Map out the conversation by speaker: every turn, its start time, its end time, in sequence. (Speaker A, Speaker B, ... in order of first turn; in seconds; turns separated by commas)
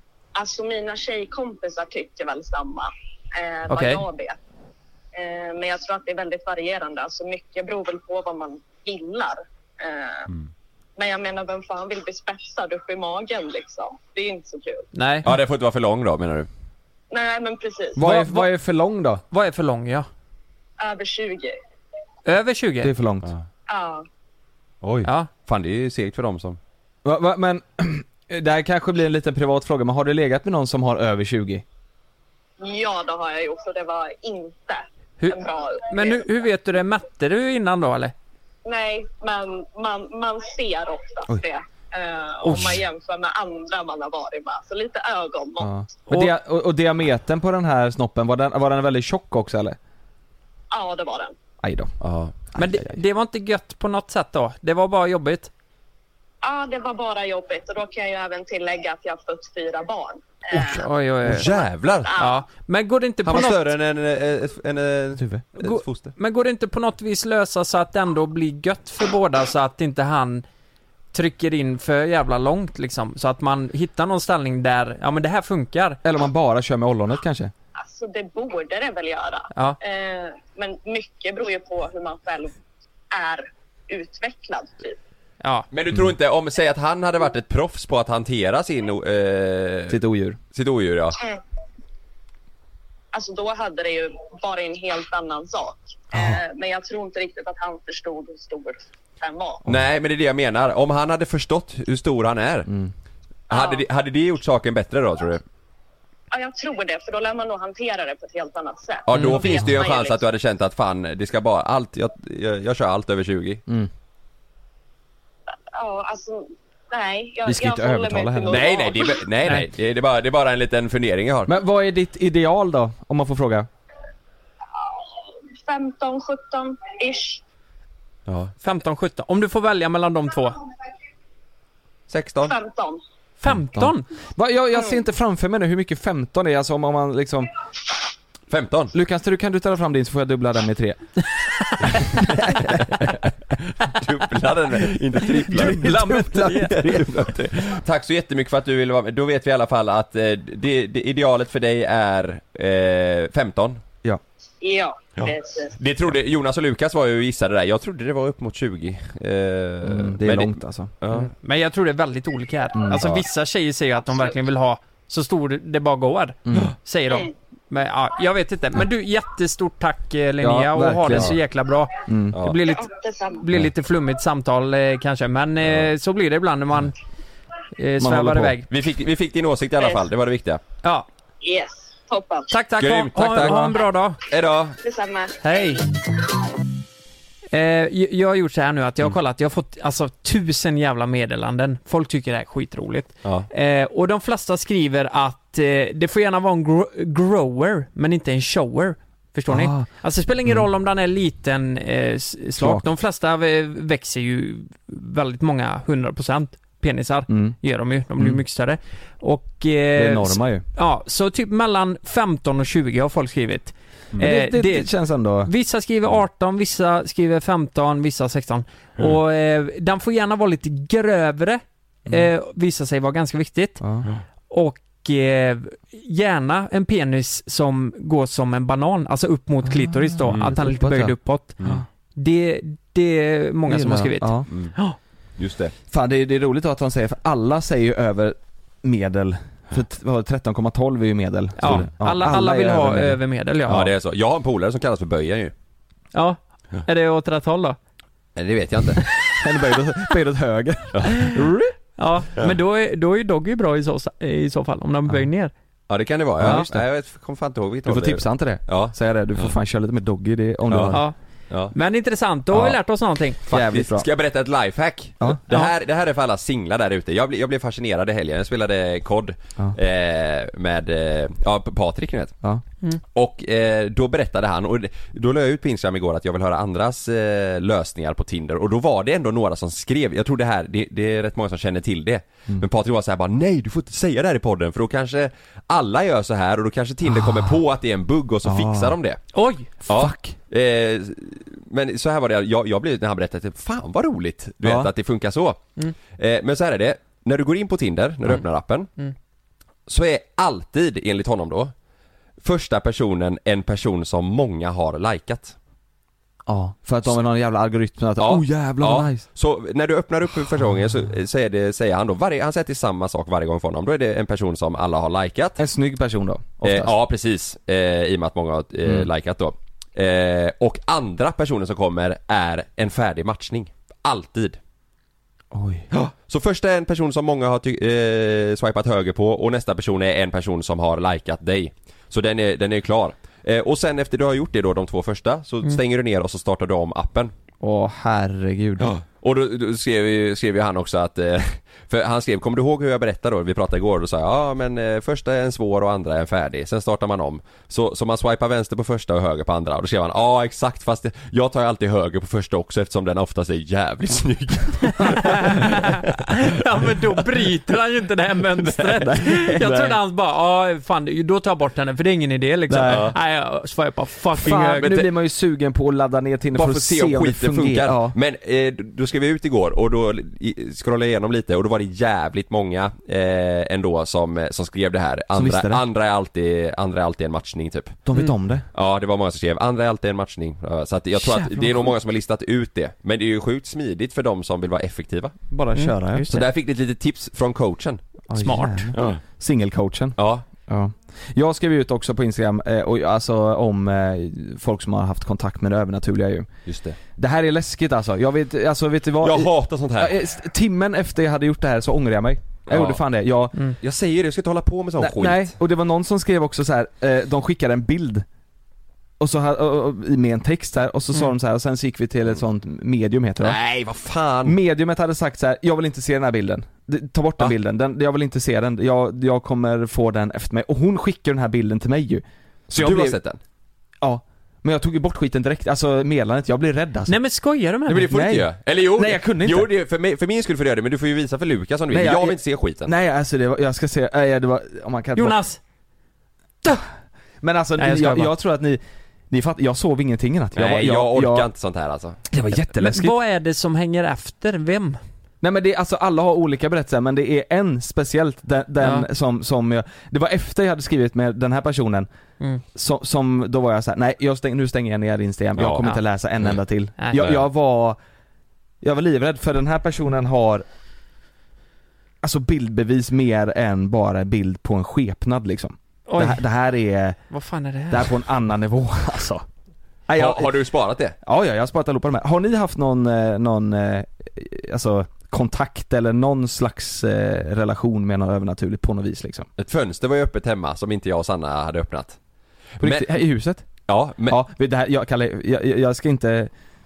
Speaker A: 0.4-4.4, Speaker B: 3.7-4.0, Speaker A: 5.2-10.3, Speaker A: 11.0-14.9, Speaker B: 14.9-15.3, Speaker C: 15.2-16.5, Speaker A: 17.1-18.0, Speaker D: 18.0-19.2, Speaker B: 18.0-18.5, Speaker B: 19.3-20.1, Speaker A: 20.8-21.6, Speaker B: 22.3-22.9, Speaker D: 22.8-23.3, Speaker A: 23.7-24.1, Speaker C: 24.8-26.6, Speaker B: 25.0-25.3, Speaker D: 27.0-31.6, Speaker A: 32.6-36.2, Speaker B: 35.9-38.1, Speaker A: 38.6-45.8, Speaker B: 42.5-42.7, Speaker D: 45.6-49.8, Speaker B: 46.1-46.3, Speaker A: 50.7-51.3, Speaker D: 51.6-51.9, Speaker C: 52.0-52.4, Speaker D: 52.5-52.9, Speaker B: 52.6-55.5, Speaker A: 56.4-62.4, Speaker B: 60.7-61.5, Speaker C: 61.2-62.1, Speaker B: 62.2-63.7, Speaker C: 63.2-66.1, Speaker D: 65.2-65.5, Speaker B: 65.6-70.4, Speaker B: 71.1-76.0, Speaker D: 76.0-77.5, Speaker A: 77.8-82.6, Speaker A: 83.1-85.0, Speaker B: 85.4-85.7, Speaker C: 85.7-90.0, Speaker D: 89.9-90.4, Speaker C: 90.5-91.2, Speaker A: 93.1-99.6, Speaker D: 96.1-96.4, Speaker C: 99.7-102.7, Speaker C: 103.5-105.4, Speaker A: 103.5-103.9, Speaker A: 106.3-110.2, Speaker C: 109.1-113.6, Speaker A: 115.8-119.2, Speaker D: 117.5-118.7, Speaker C: 118.5-121.6, Speaker D: 121.5-123.7, Speaker A: 125.6-127.4, Speaker C: 128.3-128.5, Speaker B: 128.6-130.6, Speaker C: 132.1-132.6, Speaker A: 132.4-133.0, Speaker B: 133.4-134.1, Speaker D: 133.5-137.5, Speaker C: 138.5-138.9, Speaker D: 138.9-141.1, Speaker D: 142.0-143.0, Speaker C: 143.7-153.8, Speaker D: 145.5-147.5, Speaker A: 154.6-155.8, Speaker C: 155.2-161.3, Speaker D: 159.8-160.9, Speaker B: 161.1-176.9, Speaker D: 162.8-163.0, Speaker D: 170.4-171.4, Speaker D: 172.1-172.4, Speaker A: 172.6-173.4, Speaker B: 177.8-178.7, Speaker D: 178.0-178.6, Speaker C: 178.7-180.6, Speaker A: 181.4-182.5, Speaker B: 182.5-184.2, Speaker C: 182.8-184.8, Speaker A: 184.8-185.7, Speaker B: 185.4-185.8, Speaker B: 187.5-214.9, Speaker D: 199.5-199.9, Speaker D: 202.6-202.9, Speaker D: 207.3-207.6, Speaker D: 209.9-210.6, Speaker D: 214.2-215.5, Speaker B: 215.4-223.8, Speaker D: 223.8-224.1, Speaker B: 224.5-231.6, Speaker D: 229.7-231.8, Speaker C: 230.3-230.6, Speaker B: 232.2-235.0, Speaker D: 233.7-234.5, Speaker C: 235.4-235.7, Speaker D: 235.9-243.2, Speaker B: 241.6-243.9, Speaker C: 243.7-245.5, Speaker B: 246.1-247.8, Speaker C: 248.4-249.0, Speaker D: 249.3-251.7, Speaker C: 250.9-251.3, Speaker B: 251.2-255.5, Speaker C: 255.9-259.5, Speaker D: 256.4-256.9, Speaker D: 257.9-261.1, Speaker C: 260.7-261.7, Speaker B: 261.7-263.4, Speaker D: 262.5-262.8, Speaker D: 263.5-264.1, Speaker C: 263.5-272.4, Speaker C: 273.1-289.2, Speaker D: 287.1-287.6, Speaker D: 288.4-289.0, Speaker B: 289.3-289.7, Speaker C: 289.9-295.6, Speaker D: 289.9-290.4, Speaker D: 294.6-294.9, Speaker C: 296.1-298.9, Speaker C: 299.9-301.7, Speaker C: 302.4-305.6, Speaker D: 306.5-309.2, Speaker C: 308.2-315.6, Speaker D: 315.6-316.9, Speaker C: 316.6-324.6, Speaker D: 325.5-325.9, Speaker C: 325.9-337.3, Speaker D: 337.6-338.9, Speaker C: 338.8-356.0, Speaker B: 355.1-364.9, Speaker C: 358.6-359.1, Speaker D: 359.0-360.0, Speaker D: 362.7-363.1, Speaker C: 362.9-363.1, Speaker D: 364.4-368.2, Speaker C: 364.4-365.1, Speaker C: 366.5-378.0, Speaker D: 375.3-375.8, Speaker D: 378.1-378.6, Speaker C: 378.7-385.4, Speaker D: 381.2-381.9, Speaker D: 385.5-386.3, Speaker B: 385.8-386.5, Speaker C: 386.3-388.0, Speaker D: 388.3-396.5, Speaker B: 388.4-388.9, Speaker C: 388.9-389.2, Speaker C: 390.2-390.4, Speaker C: 396.7-397.0, Speaker D: 397.1-403.6, Speaker C: 399.2-400.2, Speaker C: 402.7-403.0, Speaker C: 403.8-405.5, Speaker D: 405.0-408.2, Speaker D: 409.2-413.6, Speaker C: 413.4-414.6, Speaker D: 414.4-423.2, Speaker C: 422.7-423.4, Speaker D: 424.0-427.2, Speaker B: 427.1-428.1, Speaker C: 427.9-432.9, Speaker D: 428.1-429.7, Speaker D: 431.9-435.4, Speaker B: 435.2-435.6, Speaker D: 437.4-441.5, Speaker B: 437.8-438.3, Speaker C: 440.6-442.2, Speaker D: 442.3-443.1, Speaker B: 442.8-445.0, Speaker D: 445.4-452.1, Speaker B: 448.8-449.1, Speaker D: 452.7-458.0, Speaker C: 455.6-455.9, Speaker D: 458.8-460.6, Speaker D: 462.2-467.2, Speaker B: 466.1-466.4, Speaker B: 467.3-468.1, Speaker D: 467.9-469.4, Speaker D: 470.1-470.6, Speaker C: 470.2-471.2, Speaker D: 471.2-479.5, Speaker C: 479.6-482.2, Speaker C: 482.8-483.1, Speaker D: 482.8-483.7, Speaker C: 483.9-484.4, Speaker D: 484.2-486.5